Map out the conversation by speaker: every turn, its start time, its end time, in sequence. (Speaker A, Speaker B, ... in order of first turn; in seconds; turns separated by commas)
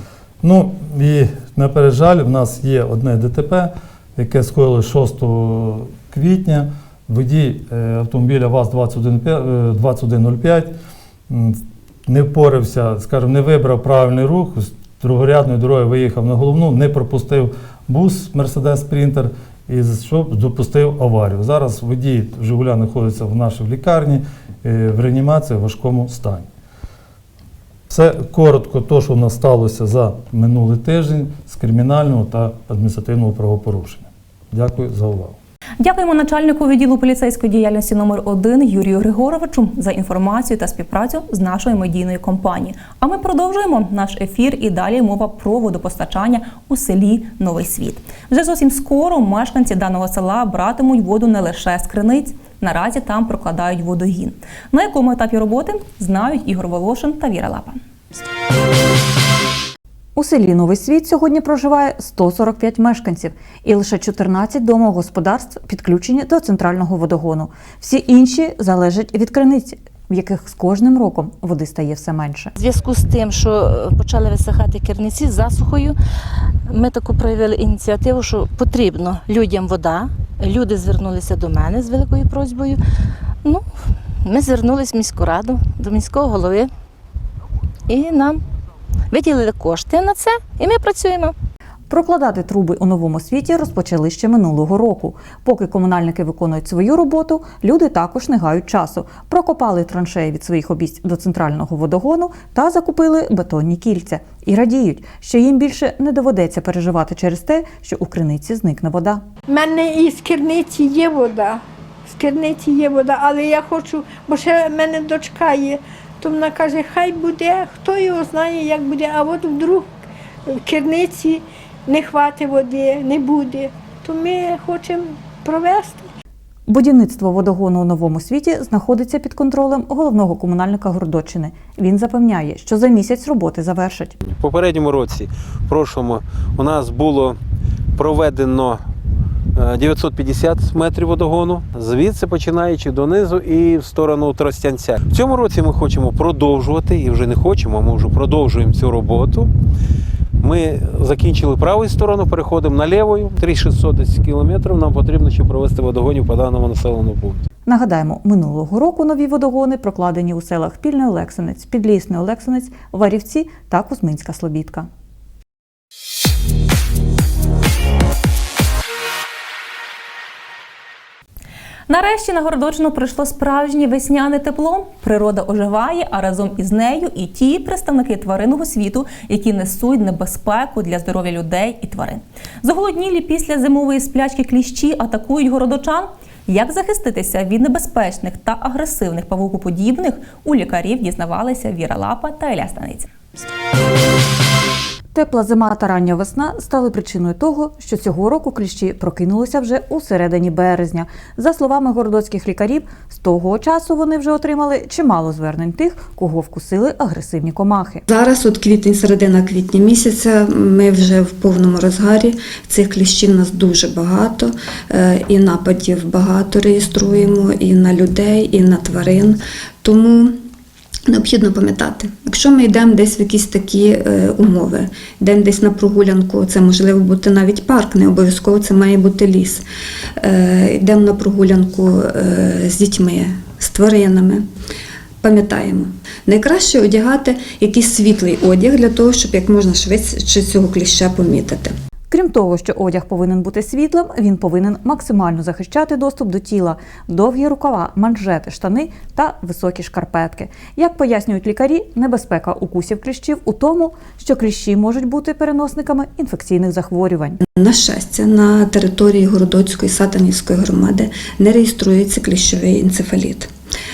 Speaker A: 0.4-10.7, Speaker A: 11.3-26.5, Speaker A: 27.9-35.4, Speaker B: 35.8-57.8, Speaker C: 60.1-72.5, Speaker D: 72.5-76.0, Speaker D: 76.7-82.8, Speaker D: 84.2-86.7, Speaker D: 87.9-88.4, Speaker D: 89.1-91.3, Speaker C: 91.9-109.2, Speaker E: 109.5-119.8, Speaker E: 120.5-126.0, Speaker C: 126.7-134.2, Speaker F: 134.3-137.4, Speaker F: 137.9-138.8, Speaker F: 139.6-149.5, Speaker F: 150.4-157.4, Speaker C: 157.7-164.9, Speaker B: 171.9-193.1, Speaker C: 195.1-208.0, Speaker G: 208.1-220.4, Speaker G: 221.1-229.6, Speaker G: 230.2-234.4, Speaker G: 235.2-241.7, Speaker C: 242.1-257.4, Speaker G: 257.6-263.5